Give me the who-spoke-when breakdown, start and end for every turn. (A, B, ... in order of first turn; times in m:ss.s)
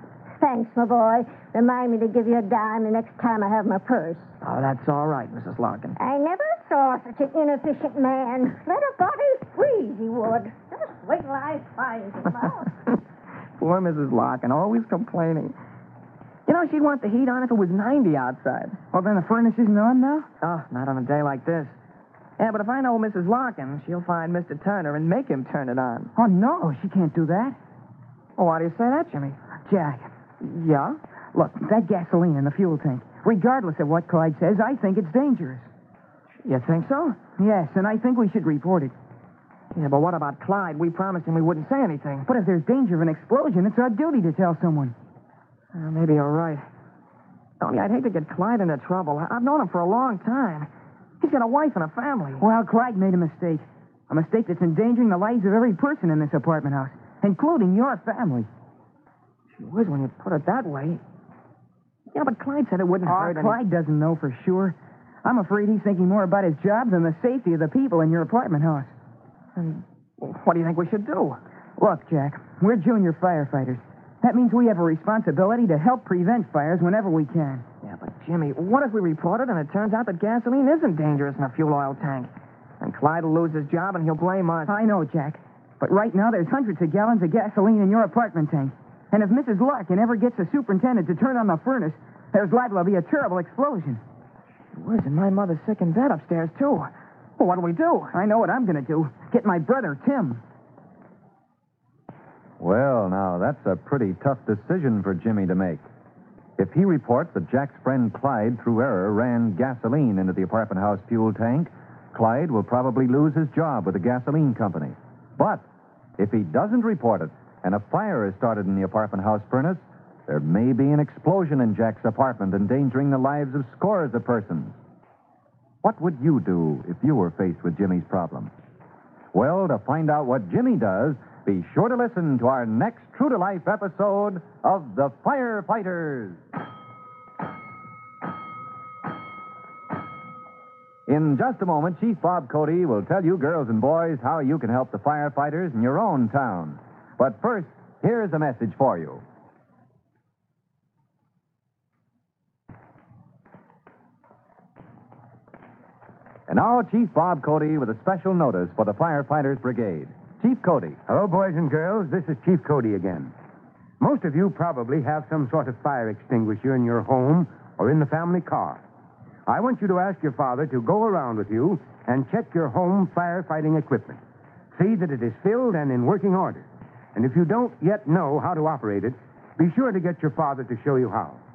0:00.4-0:04.3 A
0:04.4-0:06.0 B
0:06.0-0:12.7 A
0:13.6-0:15.5 B
0:16.5-0:18.8 B
0:18.9-0:20.3 C
0:20.4-0:21.7 B
0:22.4-0:26.1 B
0:26.1-0:27.6 C
0:28.4-0:29.4 B
0:29.6-0:30.0 C
0:30.4-0:31.0 B
0:31.3-0:35.7 C
0:36.4-0:37.2 B
0:37.4-0:38.9 C
0:39.7-0:42.3 B
0:42.2-0:44.9 C
0:45.7-0:46.6 B
0:47.6-0:50.7 B
0:51.2-0:52.4 B
0:52.4-0:58.5 C
0:59.6-1:01.0 B
1:02.1-1:03.6 B
1:03.0-1:08.9 C
1:09.6-1:11.4 B
1:11.8-1:17.6 C
1:17.8-1:22.3 B
1:22.8-1:24.8 B
1:24.6-1:34.0 C
1:34.7-1:38.1 B
1:38.1-1:40.4 C
1:42.6-1:45.8 D
1:46.6-1:55.6 D
1:56.2-2:04.8 D
2:05.8-2:08.5 D
2:09.3-2:16.4 D
2:21.1-2:29.2 D
2:36.5-2:41.0 D
2:41.1-2:43.3 E
2:44.0-2:48.8 E
2:49.5-2:54.2 E
2:54.7-3:01.4 E